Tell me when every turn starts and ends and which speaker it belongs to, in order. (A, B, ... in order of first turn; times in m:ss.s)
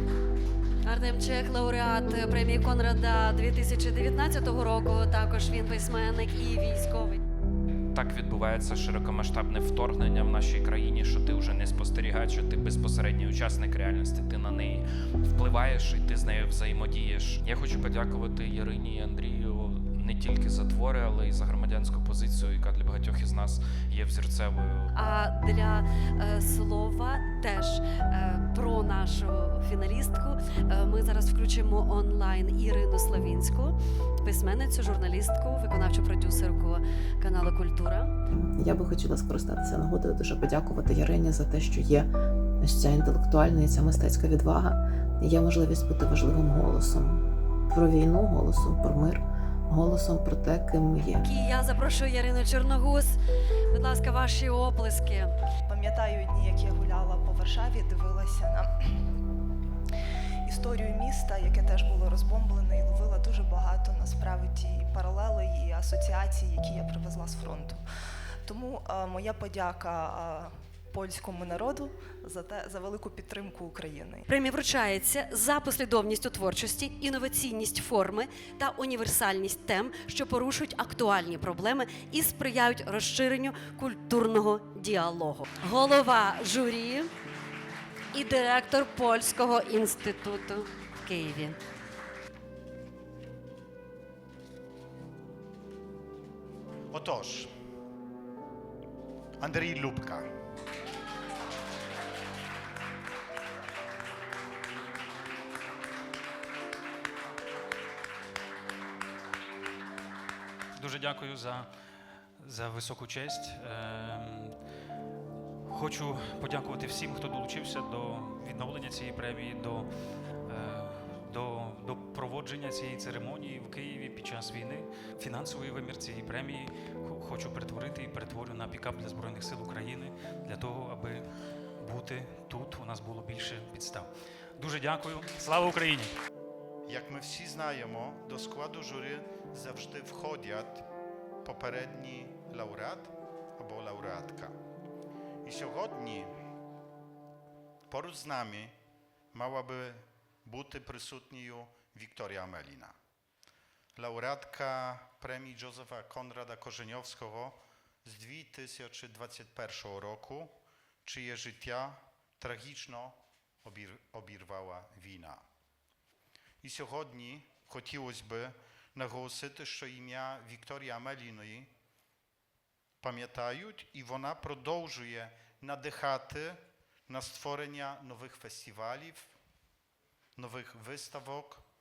0:00.8-0:07.2 A
0:07.9-0:25.1 B
0:25.0-0:38.1 A
0:38.3-0:42.1 C
0:42.6-0:47.2 C
0:47.7-0:51.2 C
0:51.2-0:53.2 A
0:53.7-0:55.3 A
0:55.7-0:58.7 D
1:00.5-1:07.8 D
1:08.5-1:14.2 D
1:14.3-1:27.1 A
1:28.1-1:31.6 A
1:36.9-1:37.5 E
1:39.4-1:40.3 E
1:50.8-1:51.7 F
1:52.4-1:54.6 F
1:55.7-1:59.9 F
2:00.4-2:16.1 F
2:16.9-2:20.9 E
2:21.4-2:24.5 E
2:25.4-2:26.3 E
2:27.9-2:28.7 E
2:29.3-2:32.9 E
2:34.0-2:45.4 E
2:46.6-2:51.7 E
2:53.0-2:59.3 E
3:00.4-3:01.6 E